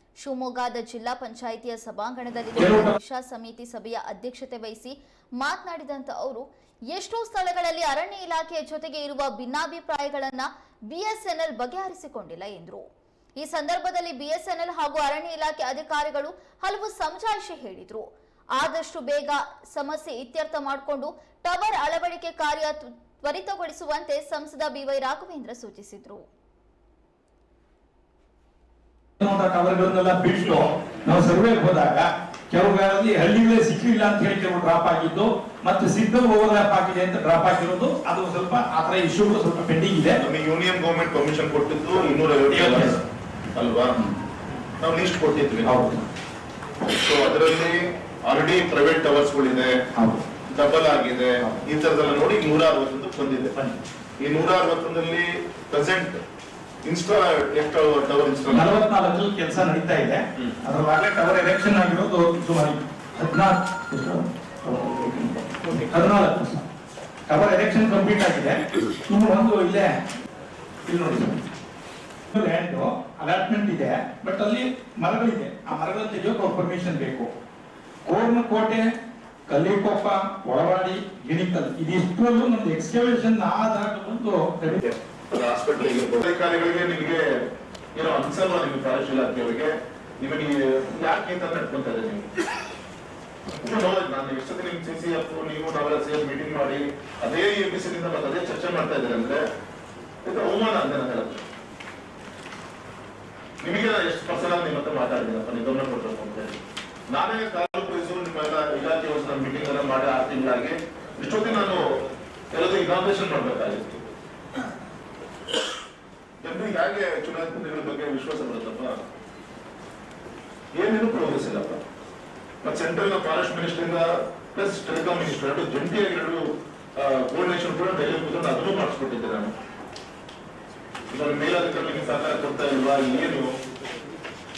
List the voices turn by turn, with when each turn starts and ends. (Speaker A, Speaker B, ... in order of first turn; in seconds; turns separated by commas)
Speaker A: 0.2-12.8, Speaker B: 2.6-2.9, Speaker A: 13.4-18.0, Speaker A: 18.6-26.2, Speaker B: 29.2-40.2, Speaker C: 40.2-43.0, Speaker B: 42.5-42.9, Speaker C: 43.5-44.0, Speaker C: 44.8-45.8, Speaker B: 45.6-46.0, Speaker C: 46.9-49.8, Speaker B: 49.9-50.2, Speaker C: 50.5-53.6, Speaker C: 54.2-56.2, Speaker C: 56.8-58.7, Speaker B: 58.5-66.7, Speaker B: 67.3-69.9, Speaker B: 70.9-71.4, Speaker B: 72.3-77.3, Speaker B: 78.0-78.8, Speaker B: 79.5-84.8, Speaker C: 85.3-87.2, Speaker C: 87.9-92.3, Speaker C: 93.5-99.4, Speaker C: 100.2-101.5, Speaker C: 103.6-106.6, Speaker C: 107.1-111.9, Speaker C: 112.5-114.0, Speaker C: 116.4-119.0, Speaker C: 120.7-121.8, Speaker C: 122.6-126.4, Speaker C: 127.0-129.5, Speaker C: 131.1-133.5